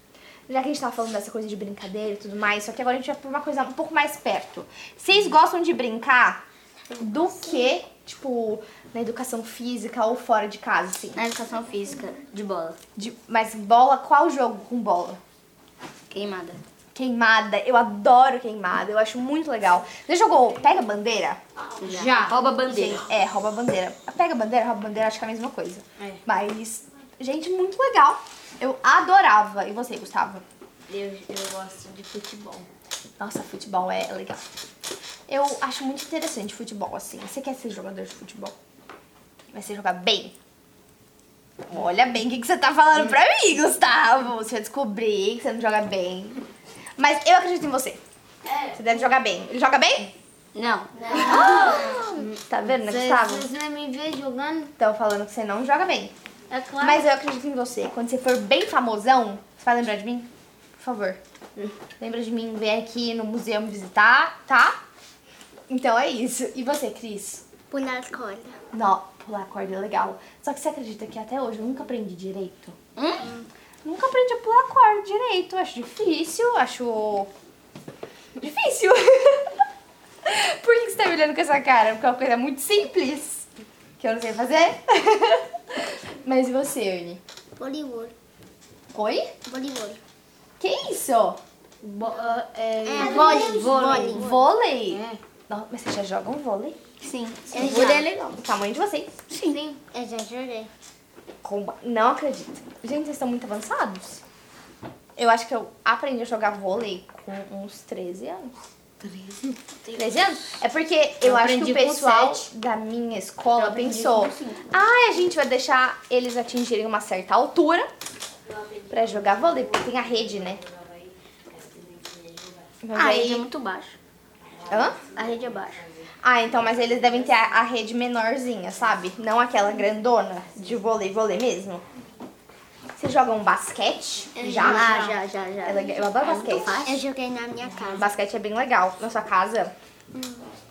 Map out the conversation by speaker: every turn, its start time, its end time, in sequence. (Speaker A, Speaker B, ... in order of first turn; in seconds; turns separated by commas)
Speaker A: 0.5-6.4, Speaker A: 7.0-11.2, Speaker B: 11.1-12.8, Speaker A: 13.0-15.2, Speaker B: 16.1-16.6, Speaker A: 16.9-30.4, Speaker B: 21.8-23.0, Speaker C: 30.9-32.7, Speaker A: 33.2-34.4, Speaker A: 35.3-38.5, Speaker A: 39.5-40.3, Speaker A: 41.7-46.5, Speaker A: 47.0-48.0, Speaker A: 48.7-50.1, Speaker B: 50.5-51.0, Speaker D: 51.0-52.1, Speaker A: 51.1-53.5, Speaker C: 51.1-54.7, Speaker A: 54.8-56.1, Speaker C: 56.5-57.0, Speaker A: 56.8-61.2, Speaker A: 62.0-64.8, Speaker A: 65.7-67.5, Speaker D: 67.7-68.6, Speaker A: 68.7-72.8, Speaker B: 73.0-73.3, Speaker D: 73.2-73.5, Speaker A: 73.8-77.3, Speaker A: 78.4-79.5, Speaker A: 80.2-83.5, Speaker A: 84.0-87.2, Speaker D: 87.6-88.1, Speaker A: 88.9-89.3, Speaker D: 89.5-90.0, Speaker A: 90.6-91.4, Speaker C: 91.8-93.8, Speaker D: 92.8-94.4, Speaker B: 93.1-94.3, Speaker A: 93.9-96.8, Speaker C: 94.9-95.2, Speaker B: 97.0-98.1, Speaker D: 97.5-98.2, Speaker A: 97.6-99.1, Speaker C: 97.6-98.0, Speaker B: 99.3-99.6, Speaker D: 99.5-100.7, Speaker A: 101.4-104.2, Speaker A: 105.2-108.5, Speaker C: 109.0-110.6, Speaker A: 110.0-117.9, Speaker B: 111.2-112.5, Speaker B: 113.5-114.7, Speaker A: 118.9-120.6, Speaker A: 122.8-123.5, Speaker B: 122.9-124.0, Speaker A: 124.7-125.0, Speaker B: 125.1-125.9, Speaker A: 126.2-131.8, Speaker A: 133.0-136.8, Speaker D: 134.4-135.8, Speaker C: 134.4-135.1, Speaker B: 134.6-137.0, Speaker D: 136.4-138.1, Speaker A: 138.0-139.7, Speaker D: 140.1-140.5